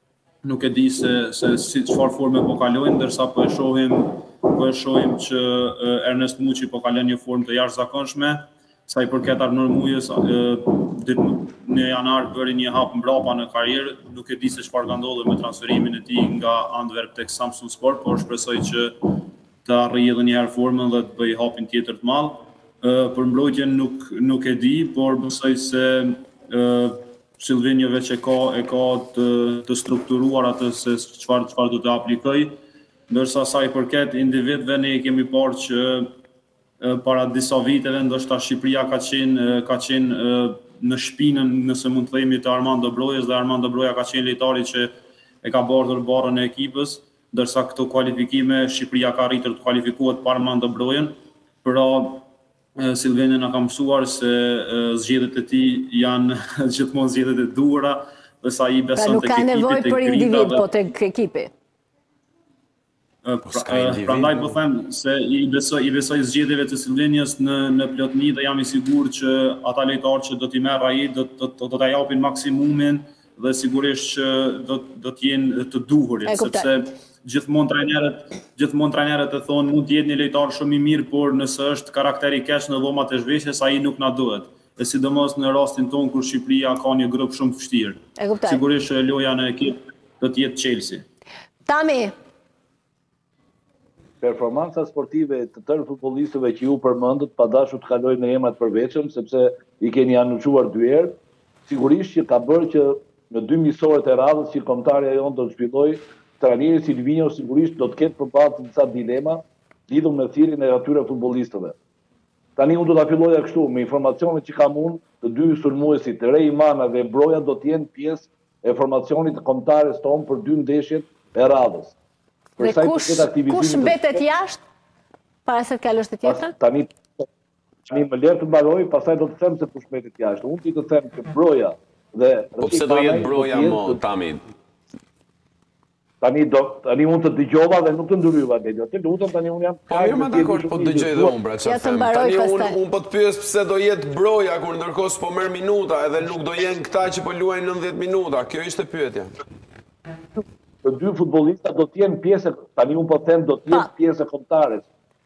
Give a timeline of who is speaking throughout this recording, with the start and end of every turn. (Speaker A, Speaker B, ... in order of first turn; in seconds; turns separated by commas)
Speaker A: 0.4-32.5, Speaker A: 33.1-36.1, Speaker A: 36.8-44.9, Speaker A: 45.4-52.2, Speaker A: 52.8-60.6, Speaker B: 59.0-61.5, Speaker A: 63.2-91.0, Speaker C: 63.5-64.5, Speaker B: 76.2-76.7, Speaker B: 88.2-88.6, Speaker B: 91.7-92.1, Speaker D: 94.2-101.1, Speaker D: 101.7-111.7, Speaker D: 112.6-122.0, Speaker D: 122.6-124.2, Speaker B: 122.6-124.6, Speaker B: 125.4-126.5, Speaker D: 126.2-127.3, Speaker D: 127.8-134.0, Speaker C: 132.6-134.4, Speaker D: 136.2-141.4, Speaker C: 139.9-149.3, Speaker B: 141.6-142.8, Speaker D: 150.3-154.9